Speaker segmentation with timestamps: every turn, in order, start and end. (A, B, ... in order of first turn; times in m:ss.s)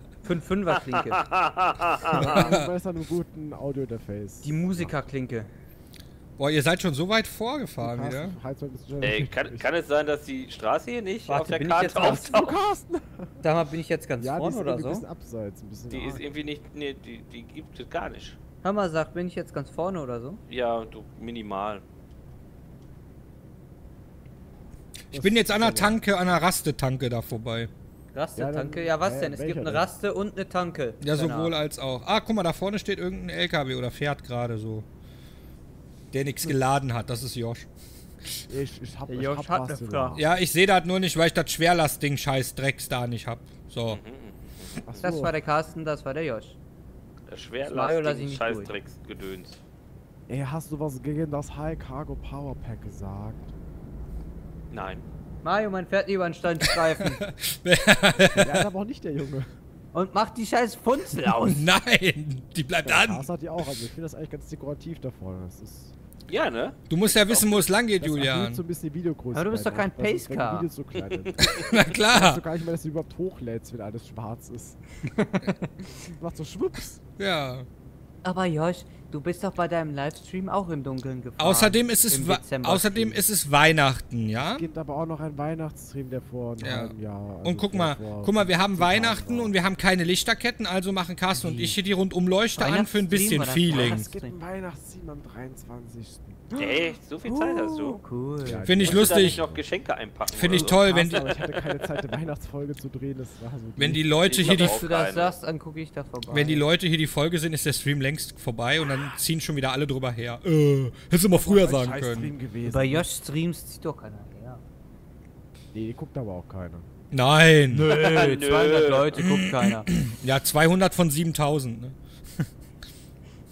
0:00.2-0:01.3 A
0:00.9-0:02.5 B
0:02.1-0:05.1 C
0:02.2-0:02.7 D
0:04.4-0:05.5 A
0:06.4-0:08.4 D
0:07.8-0:09.7 C
0:09.0-0:12.6 B
0:11.3-0:12.3 A
0:11.9-0:13.5 C
0:13.4-0:15.0 A
0:14.2-0:16.3 C
0:15.9-0:18.4 B
0:18.6-0:20.4 A
0:20.5-0:21.8 B
0:25.1-0:27.7 D
0:25.1-0:26.0 C
0:28.1-0:31.5 A
0:28.4-0:29.9 C
0:31.0-0:34.8 D
0:36.1-0:37.7 D
0:38.5-0:40.3 C
0:39.1-0:40.2 A
0:40.1-0:44.0 D
0:43.9-0:45.1 B
0:44.9-0:45.4 C
0:45.0-0:46.6 A
0:47.3-0:49.6 B
0:47.6-0:48.7 A
0:50.3-0:53.5 C
0:54.7-0:55.0 B
0:55.4-0:57.2 A
0:57.4-0:58.6 D
0:58.4-0:59.5 C
0:59.9-1:01.7 A
1:01.4-1:03.8 D
1:02.8-1:05.9 C
1:06.3-1:07.6 B
1:06.9-1:08.6 D
1:08.0-1:14.8 C
1:09.3-1:10.7 A
1:11.0-1:11.7 B
1:11.5-1:12.4 D
1:15.0-1:15.9 A
1:16.1-1:17.0 C
1:17.2-1:17.7 D
1:18.2-1:23.2 A
1:21.4-1:24.7 D
1:24.5-1:29.6 C
1:26.6-1:34.1 D
1:31.3-1:31.8 A
1:32.6-1:34.4 A
1:33.7-1:36.6 C
1:36.6-1:38.7 A
1:36.6-1:38.0 B
1:38.4-1:39.7 C
1:38.6-1:39.4 D
1:38.8-1:40.8 B
1:40.3-1:41.4 D
1:40.5-1:44.0 C
1:43.8-1:44.8 D
1:44.2-1:45.3 B
1:44.4-1:46.7 A
1:46.3-1:52.3 D
1:51.3-1:53.1 C
1:52.6-1:54.6 A
1:55.7-1:56.8 C
1:57.1-1:57.9 D
1:57.7-1:59.9 A
1:57.9-1:59.2 B
1:59.2-2:02.4 D